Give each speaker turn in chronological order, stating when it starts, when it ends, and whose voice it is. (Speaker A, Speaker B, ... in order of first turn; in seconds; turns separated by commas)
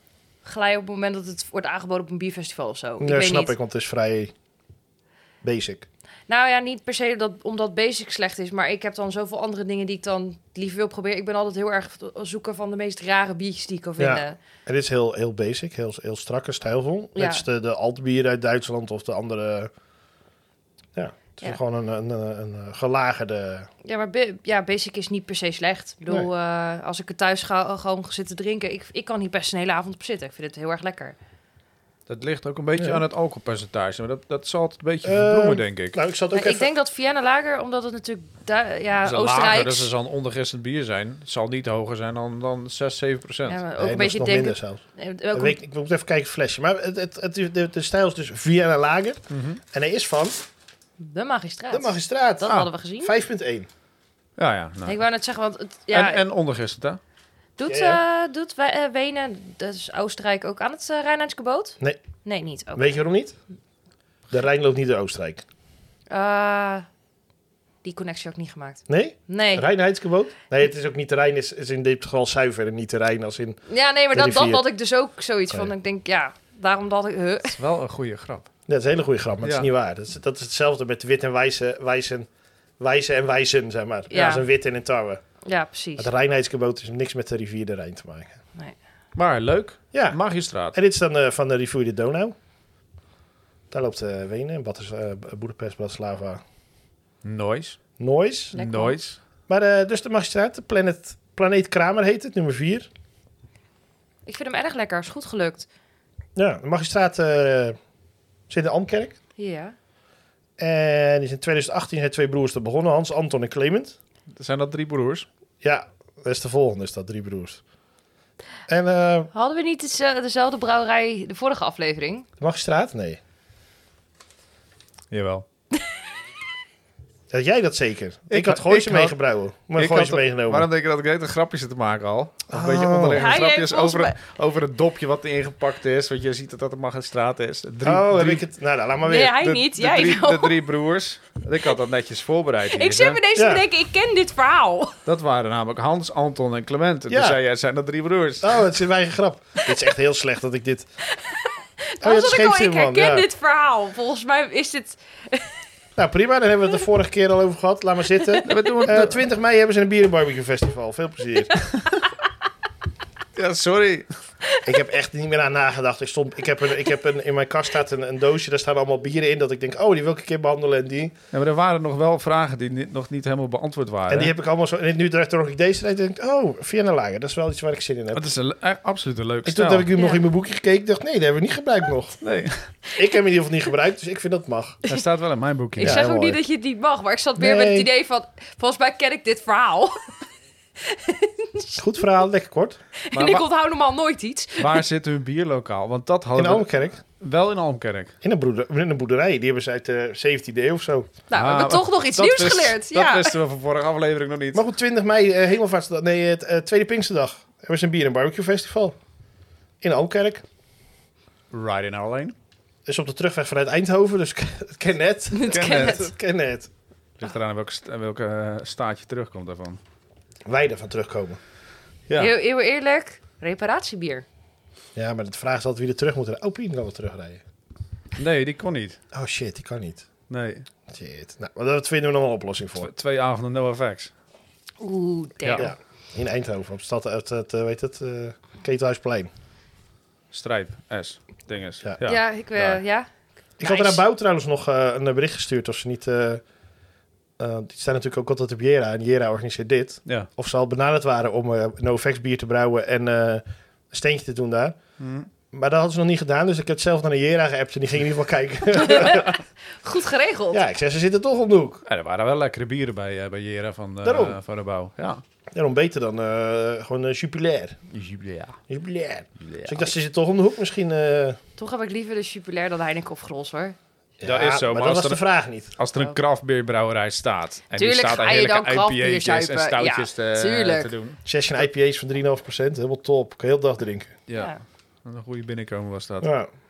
Speaker A: 0.4-3.5, Speaker B: 3.0-4.3, Speaker B: 5.4-5.8, Speaker A: 6.3-14.4, Speaker B: 14.0-19.7, Speaker A: 17.1-17.4, Speaker B: 20.9-23.7, Speaker A: 23.8-31.1, Speaker C: 32.1-36.0, Speaker B: 32.8-33.0, Speaker B: 35.0-36.7, Speaker A: 36.3-39.9, Speaker C: 39.0-43.6, Speaker A: 43.5-45.6, Speaker B: 43.8-44.8, Speaker B: 45.3-50.5, Speaker C: 49.3-49.6, Speaker A: 51.0-53.1, Speaker B: 51.7-53.7, Speaker C: 54.4-55.0, Speaker A: 54.8-56.2, Speaker C: 55.9-57.0, Speaker A: 57.6-62.9, Speaker B: 57.6-58.0, Speaker B: 62.7-63.3, Speaker B: 64.3-65.4, Speaker A: 66.1-66.9, Speaker A: 67.8-69.6, Speaker B: 68.9-73.6, Speaker A: 73.7-77.6, Speaker B: 74.1-74.6, Speaker C: 77.5-78.5, Speaker B: 78.7-82.3, Speaker C: 79.4-79.7, Speaker B: 82.8-85.2, Speaker A: 84.1-84.5, Speaker A: 85.4-86.1, Speaker B: 86.0-88.4, Speaker C: 89.2-90.8, Speaker B: 89.9-90.2, Speaker B: 90.7-92.3, Speaker B: 93.7-96.4, Speaker C: 97.2-97.8, Speaker B: 98.0-98.6, Speaker A: 98.5-99.0, Speaker C: 98.5-99.2, Speaker B: 99.5-102.9, Speaker A: 104.2-105.7, Speaker B: 106.3-107.8, Speaker B: 108.5-109.2, Speaker A: 109.4-109.7, Speaker B: 110.6-114.0, Speaker C: 114.3-115.2, Speaker B: 115.6-117.6, Speaker B: 118.7-119.3, Speaker A: 119.3-122.3, Speaker B: 122.4-123.2, Speaker C: 125.1-125.5, Speaker B: 127.3-130.7, Speaker C: 128.3-129.2, Speaker C: 129.7-138.4, Speaker B: 132.5-133.3, Speaker A: 133.1-134.2, Speaker B: 137.8-139.4, Speaker A: 139.0-140.6, Speaker C: 139.4-143.2, Speaker A: 142.7-145.0, Speaker B: 143.3-143.6, Speaker C: 145.0-148.6, Speaker B: 147.1-147.4, Speaker B: 148.4-150.8, Speaker A: 151.1-155.6, Speaker B: 152.0-153.2, Speaker B: 155.9-161.6, Speaker A: 158.3-158.7, Speaker C: 158.5-159.2, Speaker C: 163.3-164.1, Speaker B: 164.6-171.2, Speaker C: 171.3-174.3, Speaker B: 174.1-178.2, Speaker C: 178.1-179.9, Speaker B: 179.4-182.2, Speaker A: 179.9-180.2, Speaker C: 182.2-182.7, Speaker B: 182.9-184.8, Speaker C: 184.9-186.0, Speaker A: 185.8-190.1, Speaker B: 185.8-186.4, Speaker B: 187.4-187.9, Speaker A: 190.8-192.0, Speaker B: 191.8-192.8, Speaker A: 193.0-194.8, Speaker C: 193.1-193.4, Speaker C: 194.6-198.1, Speaker B: 196.3-197.0, Speaker B: 198.2-201.1, Speaker A: 201.3-203.3, Speaker C: 201.3-204.6, Speaker B: 204.5-209.0, Speaker B: 209.8-210.4, Speaker C: 211.5-212.3, Speaker B: 212.8-216.7, Speaker A: 215.3-216.1, Speaker C: 215.5-216.0, Speaker C: 217.2-219.8, Speaker B: 220.4-221.4, Speaker A: 222.2-224.2, Speaker B: 224.9-227.4, Speaker C: 228.2-229.0, Speaker B: 229.1-230.1, Speaker C: 230.3-230.7, Speaker B: 230.9-232.9, Speaker C: 232.8-234.1, Speaker A: 234.8-235.7, Speaker C: 235.4-235.7, Speaker B: 235.6-239.3, Speaker C: 240.3-242.8, Speaker A: 242.0-243.1, Speaker B: 243.6-246.4, Speaker A: 243.6-244.0, Speaker B: 247.4-254.8, Speaker C: 255.0-255.3, Speaker B: 255.5-259.3, Speaker A: 258.8-260.6, Speaker B: 260.5-261.8, Speaker C: 261.9-265.2, Speaker B: 264.0-264.4, Speaker B: 265.5-267.8, Speaker C: 267.9-268.6, Speaker B: 268.7-271.4, Speaker C: 269.4-269.9, Speaker A: 271.6-273.8, Speaker B: 274.2-275.7, Speaker C: 274.2-275.2, Speaker C: 275.8-281.2, Speaker A: 277.7-280.9, Speaker B: 281.2-284.1, Speaker C: 284.3-286.3, Speaker B: 286.2-286.5